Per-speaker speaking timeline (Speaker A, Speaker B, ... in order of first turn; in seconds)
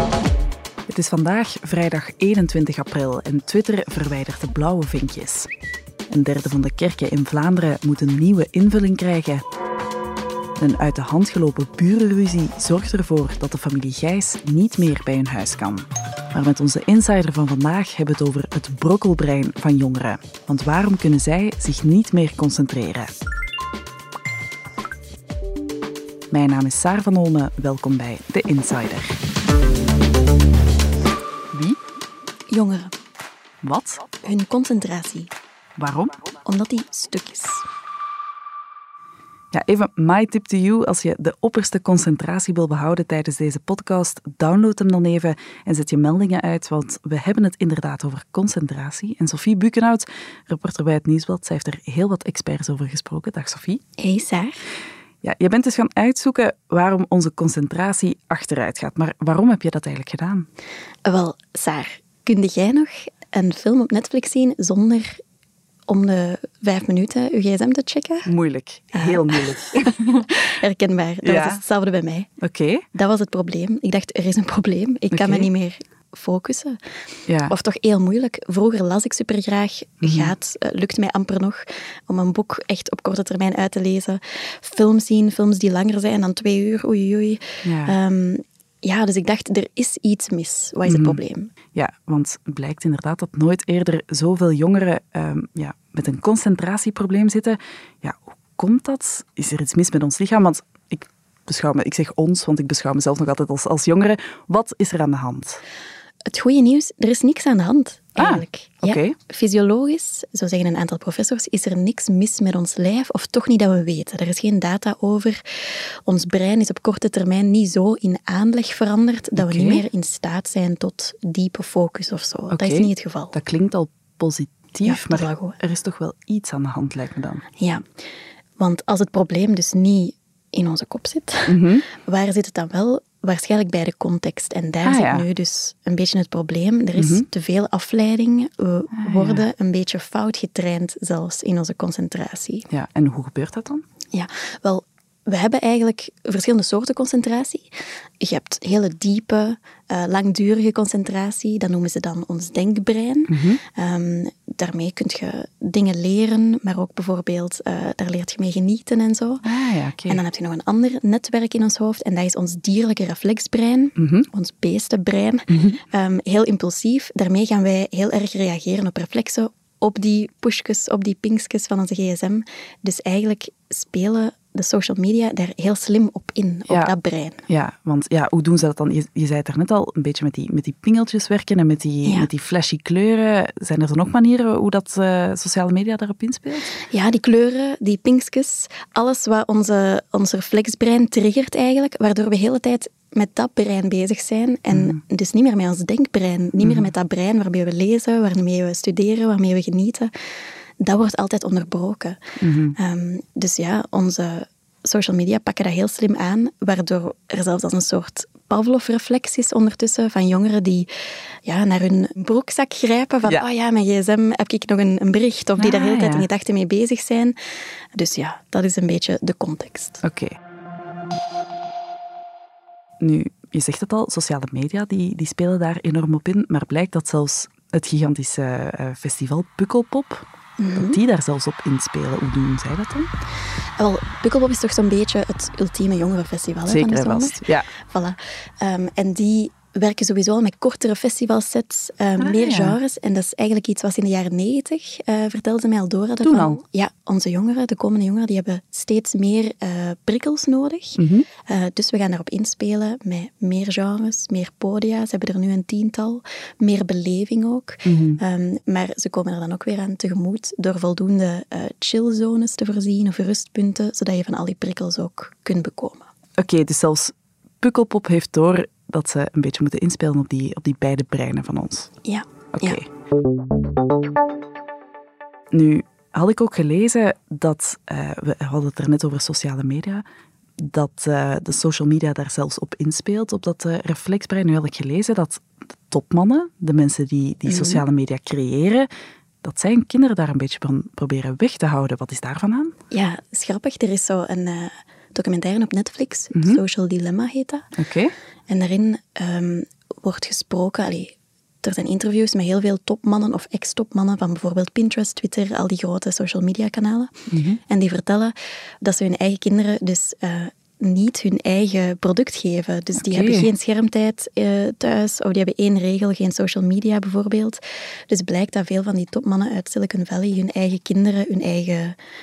Speaker A: 0.9-5.5, 6.1-9.4, 10.6-23.1, 26.3-29.2, 33.6-34.0, 35.8-36.1, 39.5-53.8, 55.2-60.5, 68.2-70.2, 71.2-71.6, 72.4-72.8, 75.1-75.5, 77.3-77.5, 80.0-80.3, 87.6-87.9, 90.8-91.2, 91.7-105.6, 108.2-109.1, 119.3-119.8, 122.5-127.4, 131.5-131.8, 134.8-135.2, 137.0-137.2, 138.9-139.4, 142.7-143.8, 153.3-153.6, 159.4-160.2, 164.0-164.3, 165.5-165.8, 177.5-186.8, 202.4-202.8, 215.6-216.3, 220.0-220.3, 223.0-233.1, 236.7-237.7, 242.2-242.8, 246.2-246.6, 251.0-251.2, 257.8-258.2, 266.4-271.9, 272.5-272.9, 275.5-280.0, 280.6-288.9, 289.4-292.7, 296.3-296.6, 297.8-298.1, 307.3-307.6, 313.0-313.5
Speaker B: 32.5-32.9, 34.2-35.3, 36.4-37.6, 54.0-54.6, 61.0-65.2, 65.9-68.3, 68.9-72.3, 72.9-76.8, 77.4-91.5, 106.3-115.4, 116.0-123.3, 124.8-125.6, 127.6-128.0, 128.6-142.7, 144.1-159.5, 160.1-177.4, 182.0-182.3, 186.9-200.1, 200.8-202.2, 202.7-210.9, 211.4-217.3, 217.9-220.0, 230.6-231.0, 233.8-266.1, 272.0-272.8, 287.5-287.8, 292.9-297.7, 298.5-307.1, 307.6-321.9